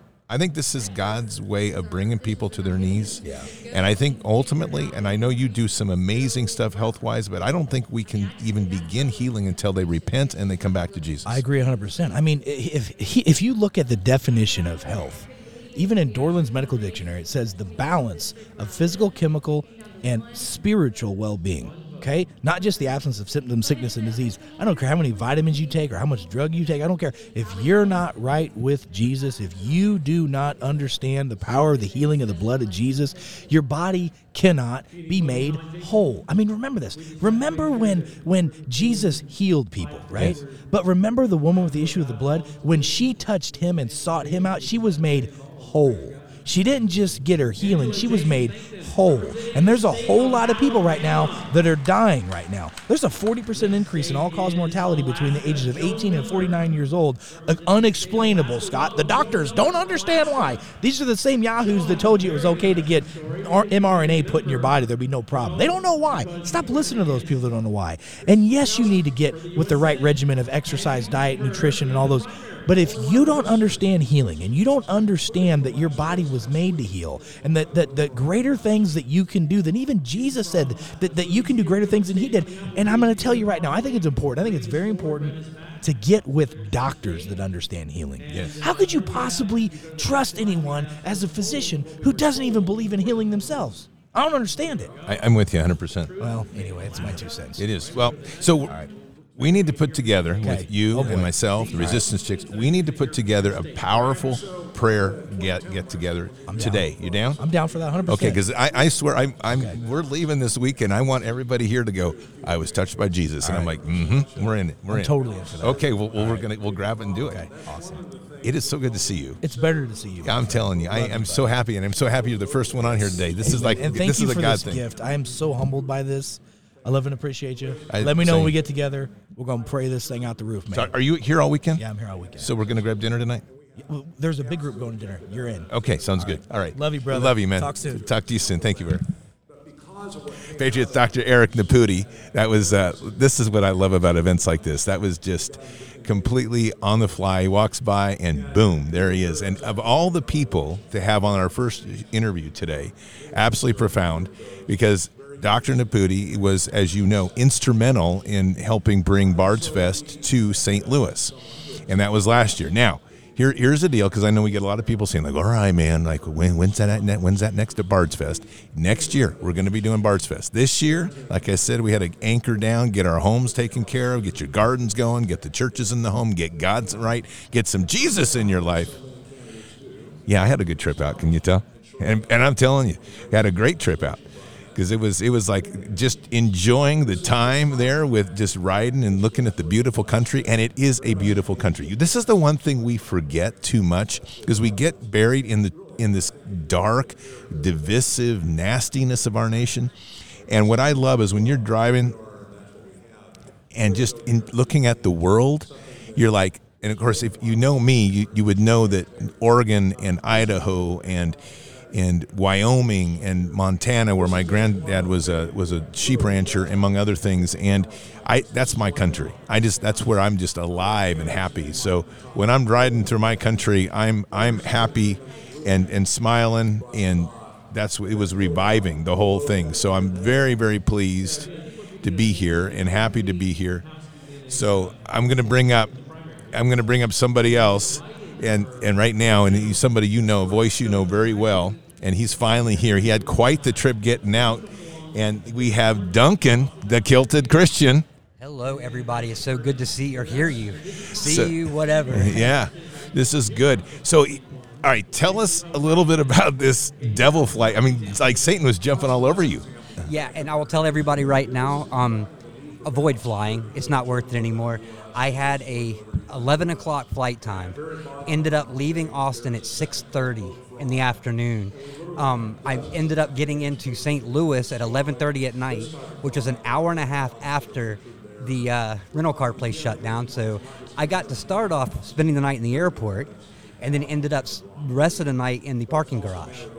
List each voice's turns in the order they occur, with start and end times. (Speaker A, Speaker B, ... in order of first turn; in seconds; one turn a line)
Speaker A: 0.3-11.4
Speaker B: 3.2-3.5
Speaker B: 11.2-94.9
Speaker A: 40.1-40.4
Speaker A: 88.3-88.6
Speaker A: 95.0-96.1
Speaker B: 96.2-97.7
Speaker A: 97.0-98.8
Speaker A: 99.4-107.4
Speaker B: 100.4-102.0
Speaker B: 106.5-106.9
Speaker B: 107.4-108.4
Speaker A: 108.1-117.5
Speaker B: 109.5-109.8
Speaker B: 113.4-113.7
Speaker B: 114.9-116.5
Speaker B: 117.2-118.0
Speaker A: 118.4-119.4
Speaker B: 119.4-121.5
Speaker A: 120.2-124.8
Speaker B: 123.4-130.9
Speaker A: 127.9-128.6
Speaker A: 130.7-131.8
Speaker B: 131.8-132.5
Speaker A: 132.4-133.5
Speaker B: 133.8-138.0
Speaker A: 135.7-139.1
Speaker A: 140.5-161.3
Speaker A: 161.9-179.0
Speaker A: 180.3-184.2
Speaker A: 184.8-199.9
Speaker A: 200.5-202.2
Speaker A: 203.7-211.4
Speaker A: 211.9-231.5
Speaker A: 232.0-233.9
Speaker A: 234.5-236.0
Speaker A: 236.5-248.1
Speaker C: 248.4-252.5
Speaker A: 251.2-260.1
Speaker C: 260.0-262.3
Speaker C: 262.9-286.7